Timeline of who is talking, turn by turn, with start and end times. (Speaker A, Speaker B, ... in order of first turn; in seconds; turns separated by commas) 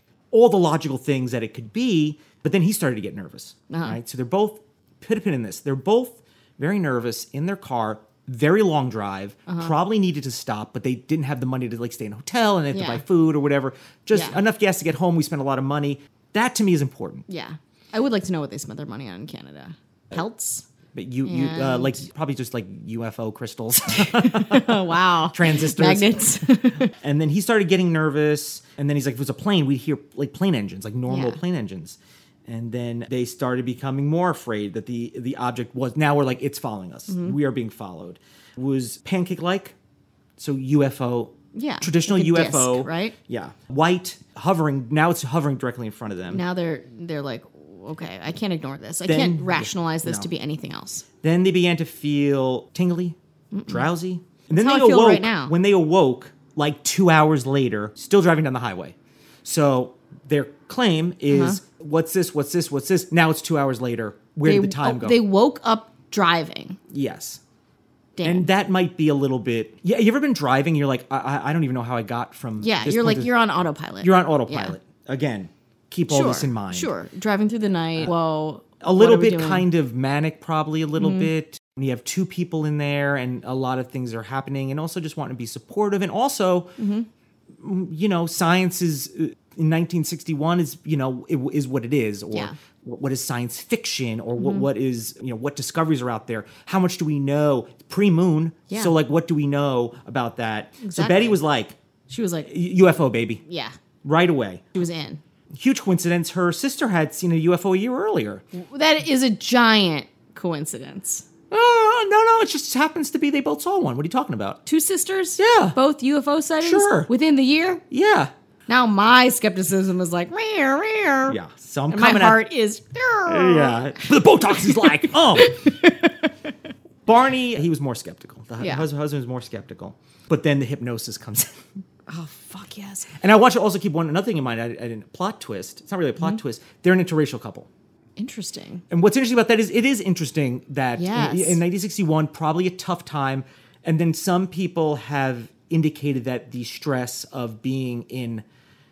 Speaker A: 0.3-17.2, Speaker B: 3.7-4.0, Speaker B: 9.5-9.7, Speaker B: 12.7-13.0, Speaker B: 14.1-14.4, Speaker B: 17.3-20.6, Speaker A: 20.9-26.2, Speaker B: 21.2-22.0, Speaker B: 24.0-26.9, Speaker A: 26.9-39.7, Speaker B: 31.1-31.4, Speaker B: 37.1-37.4, Speaker A: 40.4-46.4, Speaker B: 41.5-43.1, Speaker B: 46.3-51.0, Speaker A: 49.0-50.3, Speaker A: 51.2-53.1, Speaker B: 53.5-53.9, Speaker A: 53.7-65.2, Speaker B: 54.5-55.5, Speaker B: 61.3-61.6, Speaker B: 64.4-66.8, Speaker A: 66.9-67.4, Speaker B: 68.2-68.5, Speaker A: 68.2-73.3, Speaker B: 72.6-74.8, Speaker A: 74.0-76.9, Speaker B: 76.1-79.7, Speaker A: 78.8-86.7, Speaker B: 81.0-81.3, Speaker B: 86.8-87.1, Speaker A: 87.6-101.8, Speaker B: 94.4-94.7, Speaker B: 98.7-99.0, Speaker B: 100.8-101.4, Speaker B: 102.1-102.5, Speaker A: 102.5-103.4, Speaker B: 103.5-103.7, Speaker A: 104.0-104.6, Speaker B: 104.7-105.2, Speaker A: 105.5-108.4, Speaker B: 108.5-111.2, Speaker A: 111.5-114.6, Speaker B: 114.7-117.8, Speaker A: 115.4-115.8, Speaker A: 116.6-117.1, Speaker A: 117.9-118.3, Speaker B: 118.7-121.4, Speaker A: 121.3-122.5, Speaker B: 121.9-126.3, Speaker A: 123.3-125.6, Speaker A: 127.0-131.6, Speaker B: 128.6-128.8, Speaker B: 132.1-133.1, Speaker A: 133.2-137.7, Speaker B: 138.2-138.8, Speaker A: 138.9-148.4, Speaker B: 140.9-141.6